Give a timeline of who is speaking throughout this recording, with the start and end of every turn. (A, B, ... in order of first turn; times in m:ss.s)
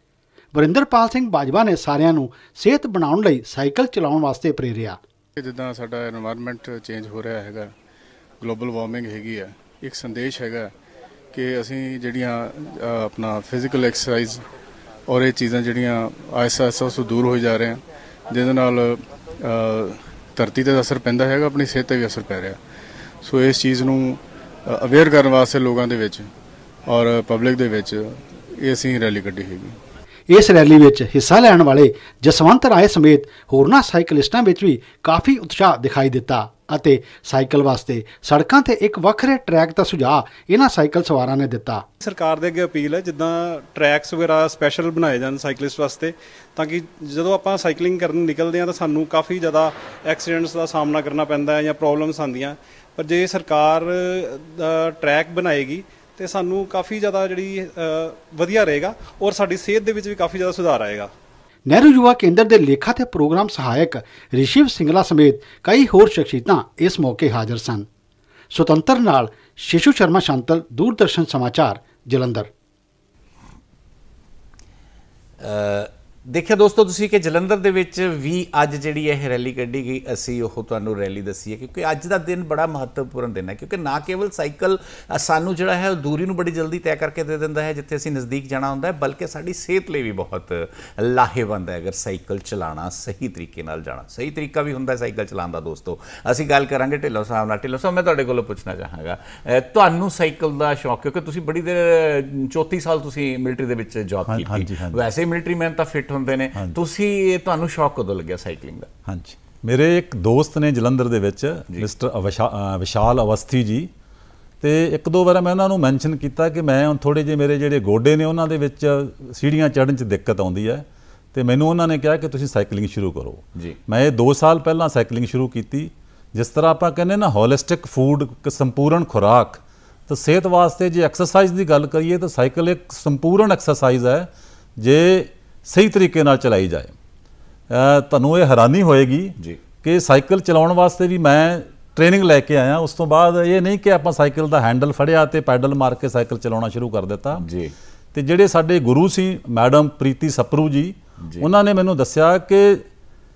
0:00.5-0:05.0 A
0:05.4-0:07.7 B
0:08.4-0:10.7 B
0:11.3-0:14.4 B
0:15.1-0:22.6 B
0:23.2-0:26.3 B
0:26.9-0:29.8 B
0:30.3-0:41.9 A
0:42.0-1:01.1 C
1:01.7-1:07.9 A
1:08.5-1:12.5 A
1:15.4-1:48.9 D
1:44.3-1:45.0 E
1:49.1-1:53.9 E
1:54.6-2:16.9 E
2:17.7-2:27.5 E
2:27.4-2:27.7 D
2:28.1-2:32.8 E
2:31.2-2:31.5 D